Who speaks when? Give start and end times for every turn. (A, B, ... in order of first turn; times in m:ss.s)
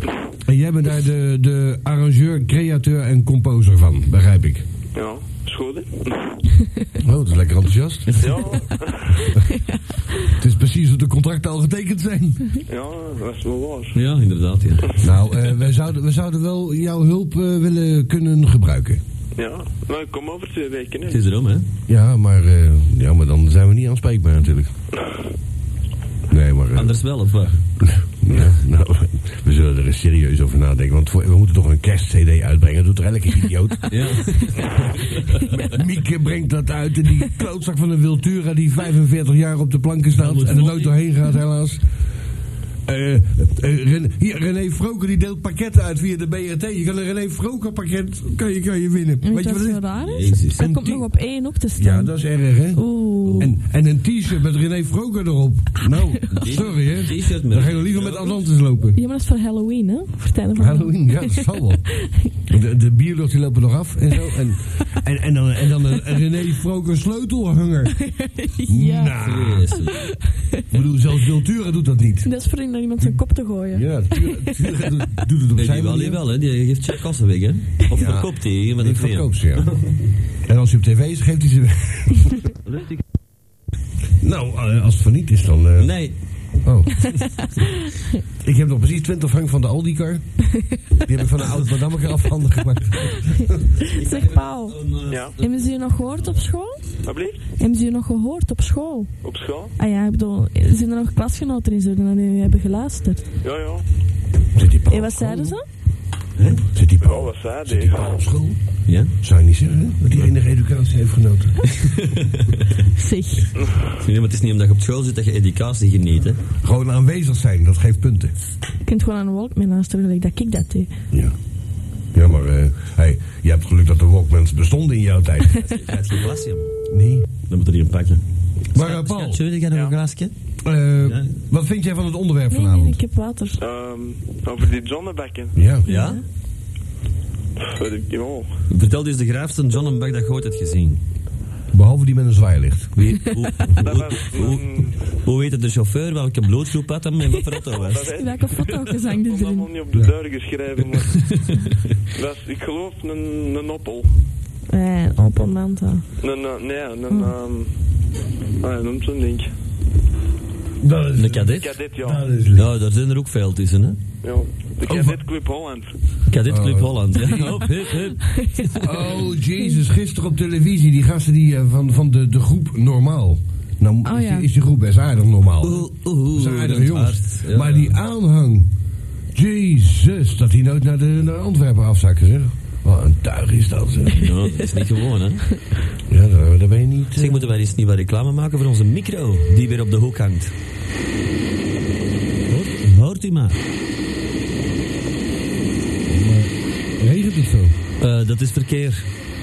0:00.4-0:04.6 A
0:04.9-0:06.4 B
0:07.0-0:08.4 A
0:08.2-0:09.2 B
0:10.3-0:12.5 A
0:12.7-0:14.0 B
0:13.9-0:15.0 C
0:15.0-0:19.0 A
0:19.4-0:21.2 B
0:21.1-0:21.6 C
0:21.9-0:24.7 A
0:26.3-0:27.0 A
0:26.7-0:27.6 C
0:27.8-0:41.8 A
0:33.9-0:35.4 C
0:40.2-0:40.9 C
0:42.8-0:49.9 A
0:49.2-0:52.2 D
0:50.0-0:50.6 C
0:50.6-0:51.1 A
0:51.7-0:59.0 A
0:52.7-0:53.5 D
0:53.2-0:53.5 C
0:56.3-0:58.4 C
0:58.9-1:01.4 D
1:00.6-1:01.9 A
1:02.4-1:08.0 A
1:08.0-1:09.2 D
1:08.7-1:09.7 A
1:09.2-1:10.0 C
1:10.1-1:10.6 D
1:10.7-1:12.3 A
1:12.2-1:14.6 D
1:13.7-1:16.2 A
1:15.6-1:19.9 C
1:17.9-1:19.7 A
1:20.4-1:22.4 A
1:22.6-1:23.0 C
1:24.2-1:25.9 A
1:25.8-1:26.1 C
1:26.6-1:27.2 A
1:28.4-1:30.5 A
1:31.0-1:33.6 A
1:33.8-1:35.8 C
1:34.0-1:34.8 D
1:35.1-1:35.3 B
1:35.4-1:36.8 D
1:37.0-1:37.4 B
1:37.6-1:39.1 D
1:39.2-1:39.7 B
1:39.8-1:43.2 D
1:43.4-1:43.8 B
1:44.5-1:45.6 A
1:44.9-1:45.6 D
1:46.7-1:48.6 A
1:47.0-1:48.1 B
1:48.9-1:49.1 C
1:49.2-1:51.7 A
1:51.8-1:52.7 C
1:53.0-1:53.5 D
1:54.0-1:56.4 C
1:56.6-1:58.3 A
1:58.8-2:00.9 D
2:02.1-2:05.6 A
2:05.6-2:06.7 C
2:06.9-2:07.3 A
2:07.5-2:08.2 C
2:08.7-2:10.3 C
2:08.7-2:09.4 A
2:10.6-2:13.0 A
2:11.0-2:11.4 C
2:12.5-2:13.6 D
2:13.6-2:15.6 B
2:15.5-2:15.8 A
2:15.8-2:16.2 D
2:15.9-2:16.2 C
2:17.6-2:18.5 B
2:18.7-2:21.0 C
2:21.7-2:22.9 A
2:23.0-2:28.1 C
2:23.8-2:25.0 B
2:27.8-2:31.5 B
2:27.9-2:29.7 D
2:31.2-2:31.5 C
2:32.1-2:34.2 B
2:34.7-2:36.0 D
2:36.2-2:37.7 B
2:38.6-2:39.5 B
2:40.8-2:42.7 A
2:41.2-2:41.8 C
2:41.4-2:42.2 B
2:42.5-2:44.0 C
2:44.2-2:45.9 B
2:44.9-2:45.1 A
2:46.3-2:48.9 C
2:46.5-2:47.7 A
2:48.2-2:48.7 D
2:48.8-2:58.7 A
2:54.0-2:54.5 D
2:55.6-2:57.9 C
2:59.3-3:04.3 A
3:04.1-3:05.5 C
3:06.1-3:07.5 A
3:07.2-3:10.5 C
3:12.5-3:13.6 C
3:16.0-3:17.8 A
3:18.0-3:19.1 C